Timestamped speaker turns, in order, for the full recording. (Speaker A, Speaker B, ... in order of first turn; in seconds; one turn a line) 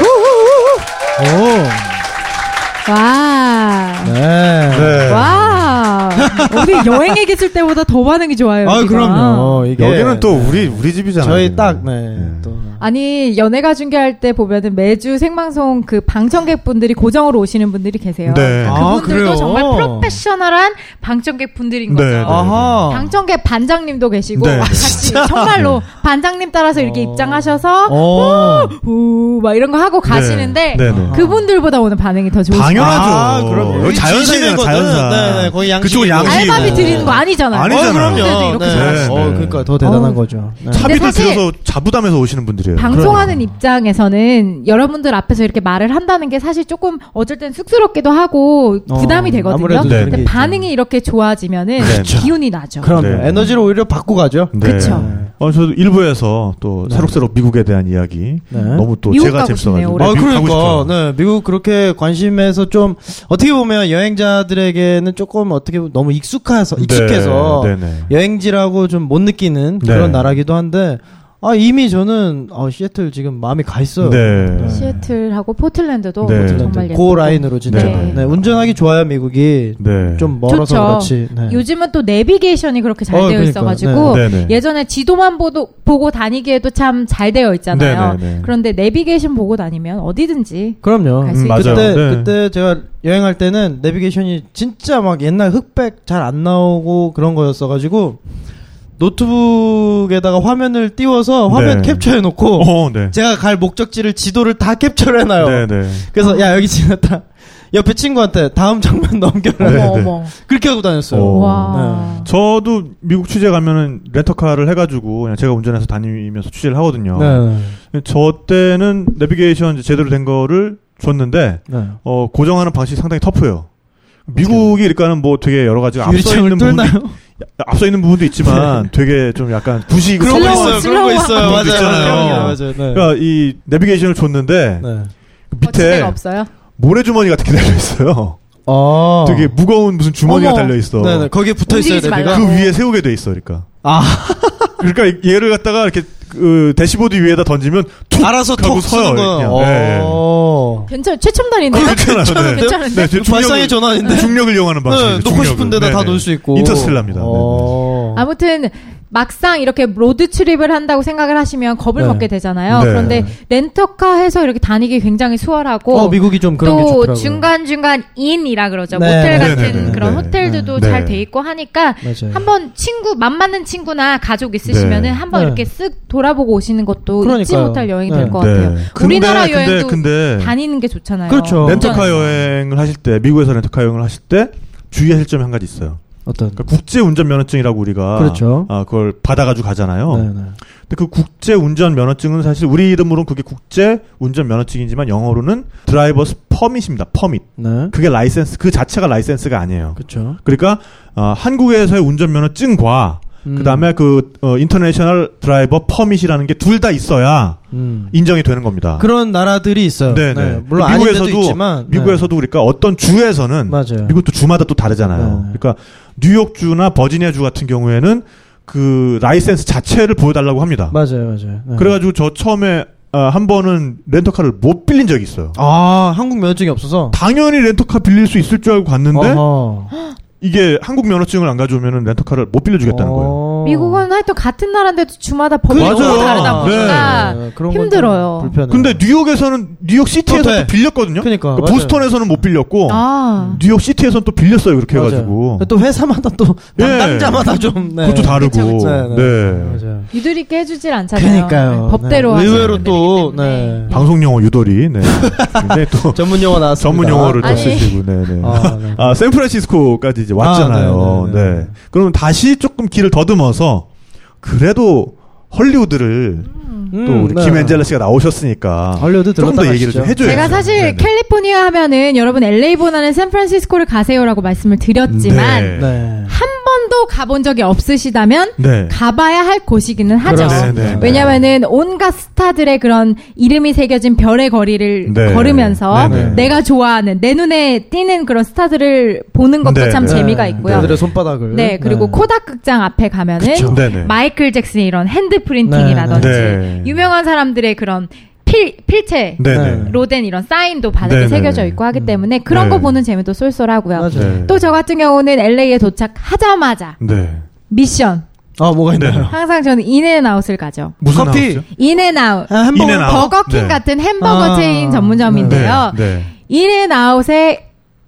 Speaker A: 1.2-1.9
Speaker B: 2.9-4.1
Speaker A: 4.0-5.2
Speaker C: 4.7-5.8
Speaker B: 5.0-9.6
Speaker A: 6.3-6.9
Speaker A: 8.6-12.8
Speaker C: 9.8-12.5
Speaker B: 12.8-34.0
Speaker C: 18.2-18.8
Speaker A: 18.6-20.2
Speaker C: 21.9-22.9
Speaker A: 22.2-23.1
Speaker C: 24.4-25.8
Speaker A: 24.6-25.2
Speaker A: 26.7-28.7
Speaker C: 30.1-31.2
Speaker A: 30.8-31.4
Speaker C: 32.5-39.7
Speaker A: 32.8-40.9
Speaker B: 36.2-41.5
Speaker C: 40.7-43.5
Speaker B: 42.8-53.6
Speaker A: 42.9-43.2
Speaker A: 48.9-50.7
Speaker C: 49.8-50.5
Speaker C: 51.8-53.5
Speaker A: 51.8-55.3
Speaker C: 54.5-60.9
Speaker B: 54.6-55.1
Speaker A: 56.9-57.1
Speaker A: 58.5-58.9
Speaker B: 58.5-60.2
Speaker A: 60.0-74.9
Speaker C: 66.8-68.1
Speaker C: 69.8-70.3
Speaker C: 74.0-75.0
Speaker B: 74.7-78.2
Speaker C: 76.2-76.9
Speaker A: 76.3-81.6
Speaker C: 77.7-78.7
Speaker C: 79.8-80.4
Speaker B: 80.5-92.0
Speaker A: 83.1-84.2
Speaker C: 84.0-84.6
Speaker C: 87.7-88.5
Speaker A: 90.8-98.2
Speaker C: 91.3-92.3
Speaker A: 99.0-112.2
Speaker C: 101.5-103.1
Speaker C: 105.4-106.1
Speaker B: 106.2-106.5
Speaker C: 109.6-110.2
Speaker B: 109.6-110.3
Speaker C: 111.1-123.7
Speaker B: 111.3-112.3
Speaker A: 117.1-117.8
Speaker A: 121.7-122.0
Speaker C: 124.2-134.9
Speaker A: 124.3-124.8
Speaker A: 126.0-127.2
Speaker A: 128.4-128.8
Speaker A: 130.1-133.1
Speaker B: 130.3-132.6
Speaker A: 134.8-135.1
Speaker C: 135.5-136.2
Speaker B: 135.6-136.5
Speaker C: 136.8-138.4
Speaker A: 138.7-139.5
Speaker C: 139.2-141.3
Speaker B: 140.3-140.7
Speaker A: 140.9-142.4
Speaker B: 141.7-142.7
Speaker C: 142.3-143.7
Speaker A: 143.8-144.8
Speaker C: 144.8-150.2
Speaker A: 148.2-150.9
Speaker B: 150.9-153.3
Speaker A: 151.7-158.2
Speaker C: 151.7-157.8
Speaker B: 158.1-182.1
Speaker A: 162.0-162.2
Speaker C: 162.7-163.2
Speaker A: 162.8-163.3
Speaker A: 165.9-167.5
Speaker A: 168.9-170.7
Speaker C: 169.3-171.2
Speaker A: 172.0-172.4
Speaker C: 174.6-175.2
Speaker A: 175.3-175.6
Speaker A: 177.2-178.4
Speaker C: 178.2-180.5
Speaker A: 181.3-182.3
Speaker C: 181.6-186.0
Speaker A: 186.2-186.6
Speaker C: 186.6-190.3
Speaker A: 188.1-188.7
Speaker A: 190.1-190.6
Speaker C: 190.9-209.1
Speaker A: 197.6-197.9
Speaker A: 200.0-200.4
Speaker A: 203.4-203.9
Speaker A: 207.7-208.1
Speaker A: 209.0-212.3
Speaker C: 210.1-221.0
Speaker A: 213.7-214.2
Speaker A: 215.1-215.6
Speaker A: 220.9-221.9
Speaker C: 221.8-225.6
Speaker A: 225.6-227.2
Speaker C: 227.1-229.4
Speaker A: 229.1-229.9
Speaker C: 230.4-233.4
Speaker A: 232.8-234.0
Speaker B: 233.6-238.6
Speaker A: 235.7-239.0
Speaker C: 235.7-237.3
Speaker C: 238.7-245.7
Speaker A: 240.3-242.1
Speaker B: 242.9-243.6
Speaker A: 244.9-250.1
Speaker C: 246.8-249.8
Speaker B: 248.2-249.0
Speaker B: 250.1-254.1
Speaker A: 251.1-253.9
Speaker C: 252.3-252.9
Speaker C: 253.9-263.9
Speaker A: 255.2-259.2
Speaker B: 257.4-258.0
Speaker A: 260.4-261.7
Speaker C: 264.4-271.1
Speaker B: 266.5-266.9
Speaker A: 266.9-267.8
Speaker A: 269.0-270.6
Speaker B: 270.2-290.9
Speaker C: 275.1-276.0
Speaker A: 275.7-276.4
Speaker C: 278.6-278.9
Speaker A: 280.2-281.3
Speaker C: 280.2-281.4
Speaker C: 285.0-286.6
Speaker A: 286.0-286.5
Speaker C: 289.6-291.0
Speaker A: 290.0-292.2
Speaker B: 291.5-307.0
Speaker A: 293.4-293.8
Speaker C: 293.6-294.1
Speaker A: 295.6-296.4
Speaker C: 296.1-297.1
Speaker C: 299.4-300.0
Speaker A: 299.5-300.0
Speaker C: 301.0-301.8
Speaker A: 301.9-302.2
Speaker C: 302.5-303.0
Speaker A: 303.9-304.5
Speaker C: 304.1-304.6
Speaker C: 307.0-307.4
Speaker B: 307.7-308.2
Speaker A: 308.6-309.4
Speaker C: 308.9-309.3
Speaker B: 309.0-311.0
Speaker C: 311.0-311.6
Speaker A: 311.1-311.6
Speaker B: 311.7-317.6
Speaker A: 312.5-313.3
Speaker C: 312.7-313.8
Speaker A: 314.2-315.7
Speaker C: 315.3-316.3